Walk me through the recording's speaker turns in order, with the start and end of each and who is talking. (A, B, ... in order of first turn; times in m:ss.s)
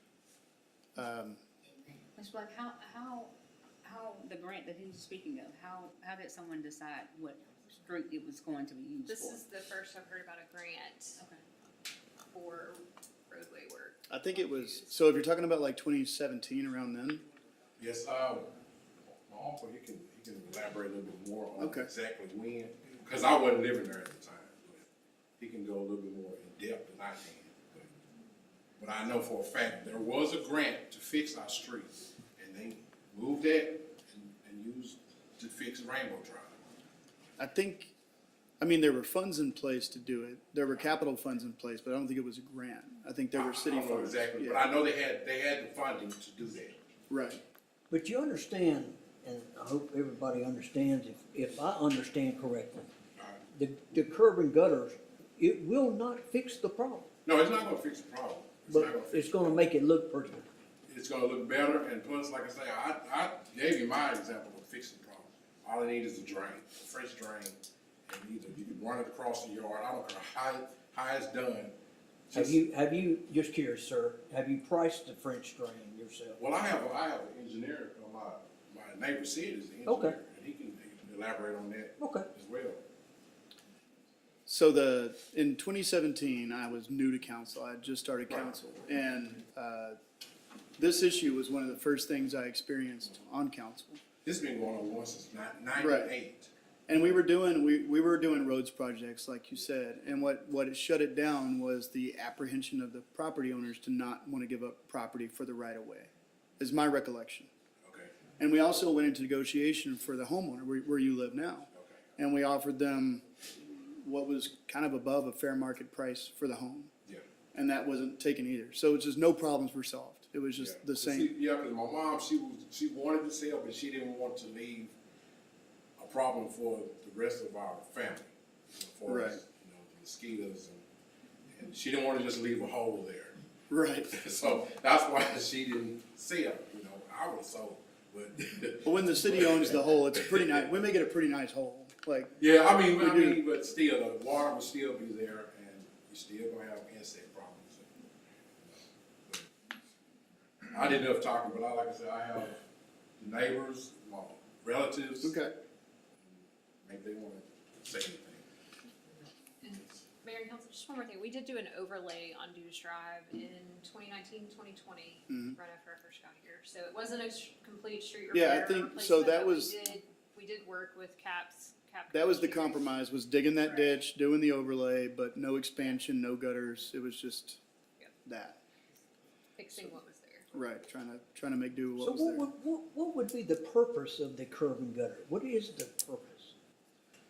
0:01.0-0:01.4 A
0:02.2-0:09.4 B
0:09.1-0:11.2 C
0:12.3-0:14.0 C
0:14.1-0:17.2 A
0:17.8-0:18.5 D
0:19.3-0:24.9 D
0:21.6-0:21.9 A
0:25.4-0:27.9 D
0:28.8-0:36.6 D
0:37.4-0:37.9 A
0:38.6-0:44.7 A
0:43.3-0:46.8 D
0:47.1-0:47.4 A
0:47.9-0:52.9 E
0:53.5-0:57.1 E
0:57.2-0:59.6 D
0:58.7-1:00.5 E
1:00.9-1:11.8 D
1:12.3-1:12.6 D
1:12.3-1:16.4 E
1:16.4-1:22.8 D
1:19.9-1:20.2 E
1:22.0-1:22.3 E
1:24.5-1:30.0 A
1:30.8-1:34.0 A
1:34.2-1:36.5 D
1:35.8-1:36.2 A
1:36.9-1:47.5 A
1:47.8-1:48.1 D
1:48.4-1:56.9 A
1:51.7-1:52.0 D
1:57.5-2:01.3 A
2:00.6-2:05.0 D
2:06.0-2:10.8 D
2:09.1-2:09.4 A
2:11.5-2:13.4 D
2:13.7-2:14.2 A
2:14.1-2:20.6 D
2:18.8-2:23.4 A
2:22.4-2:27.9 D
2:28.6-2:29.5 D
2:30.6-2:32.6 D
2:33.2-2:35.4 D
2:35.2-2:35.5 A
2:36.3-2:38.4 D
2:39.6-2:52.9 C
2:45.3-2:45.6 A
2:48.3-2:49.8 A
2:52.1-2:57.6 A
2:53.6-2:54.0 C
2:58.2-2:58.6 A
2:59.6-3:00.5 C
3:00.5-3:02.5 A
3:02.0-3:06.5 E